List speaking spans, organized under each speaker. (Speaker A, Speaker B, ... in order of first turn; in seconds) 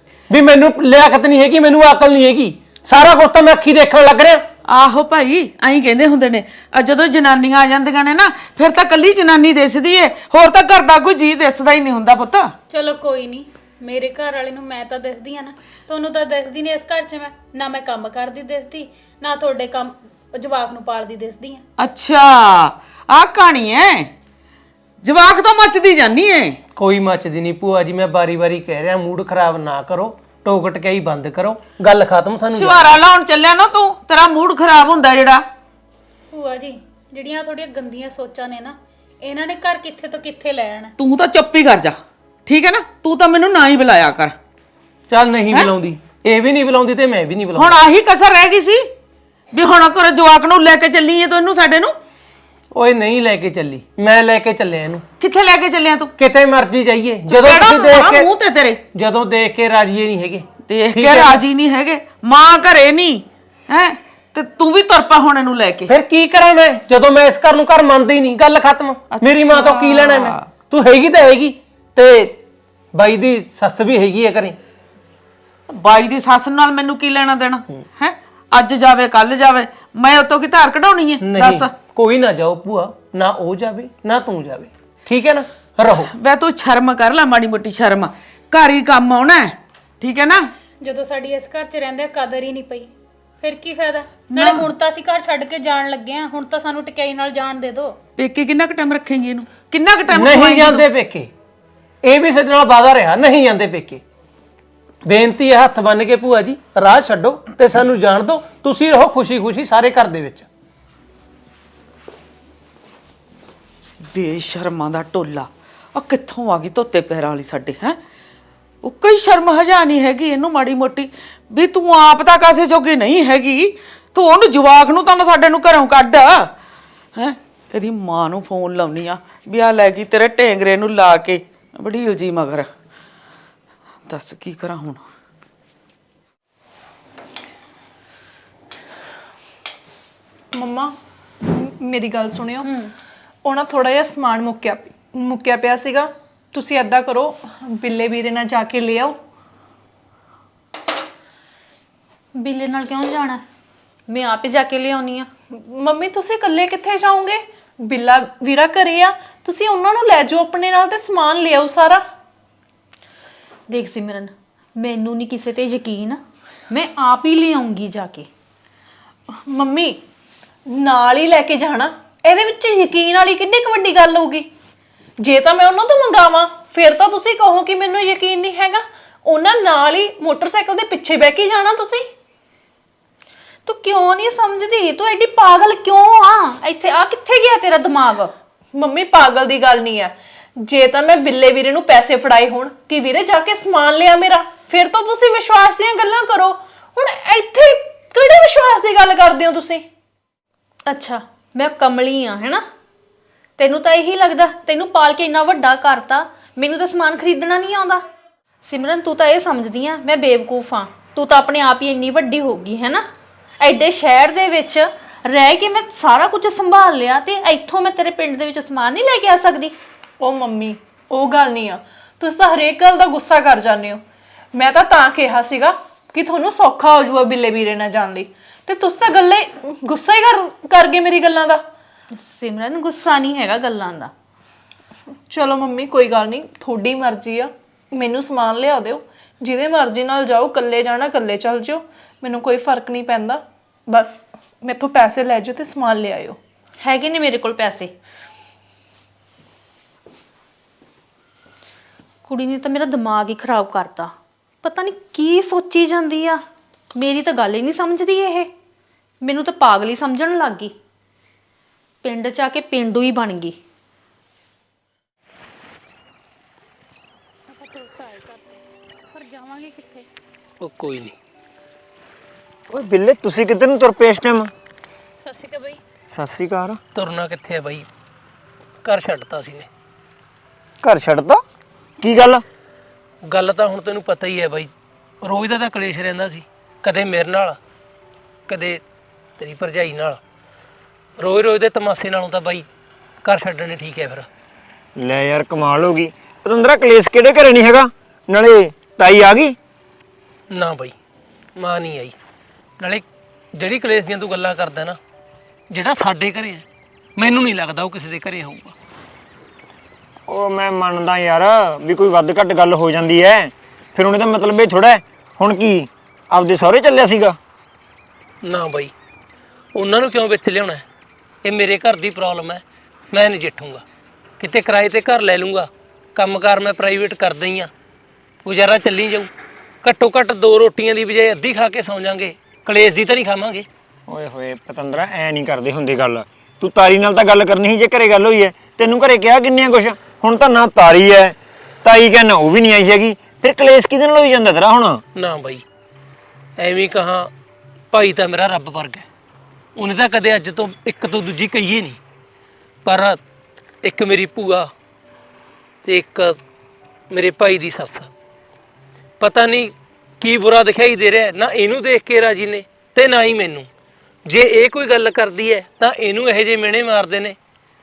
Speaker A: 0.3-4.4, 26.8-33.0, 45.1-47.8, 52.7-55.0, 56.2-58.3, 58.9-61.4, 65.9-72.4, 72.9-74.6, 81.2-86.1, 100.1-101.3, 102.0-104.0, 105.0-110.5, 270.6-271.1, 276.9-277.9, 278.8-279.7, 283.2-284.7, 285.2-287.6, 288.5-288.8, 289.4-290.2, 291.2-292.7, 293.2-294.3, 300.5-300.9, 301.6-302.1, 302.8-305.0, 305.7-306.6, 307.2-308.7, 318.4-318.9, 319.7-320.8, 321.4-323.8, 324.4-327.7, 328.4-329.3, 329.8-333.6, 345.1-345.6, 346.6-347.3, 347.9-349.1, 349.8-352.0, 352.8-353.2, 353.8-354.7, 355.8-356.4, 357.1-358.1, 359.2-363.7, 364.2-367.4
Speaker B: 4.7-12.5, 21.8-24.1, 25.0-26.6, 32.5-35.4, 41.0-44.4, 47.5-48.9, 49.5-51.9, 55.2-56.1, 57.3-58.8, 60.7-65.9, 69.1-70.4, 75.7-81.7, 86.1-90.5, 94.3-94.7, 98.2-100.8, 114.1-118.0, 118.8-126.5, 127.2-132.7, 134.1-135.0
Speaker C: 12.7-21.6, 36.3-40.9, 90.8-98.0, 267.5-270.1, 275.2-275.8
Speaker D: 140.5-142.7, 143.4-149.2, 155.5-162.0, 169.4-170.0, 170.7-174.5, 175.2-182.1, 188.7-199.8, 220.2-224.0, 224.5-231.6, 235.3-246.4
Speaker E: 142.6-142.9, 152.4-153.4, 154.1-155.3, 163.7-166.2, 166.7-168.3, 183.7-188.3, 200.9-202.6, 203.6-208.0, 208.6-213.0, 213.6-219.7, 232.2-234.1, 246.8-247.9, 252.2-254.1, 254.6-256.4, 256.9-258.5, 259.2-260.7, 262.0-263.6
Speaker F: 272.7-274.5, 276.1-276.8, 280.8-281.4, 282.0-282.4, 295.0-299.6, 310.3-317.4, 334.1-345.0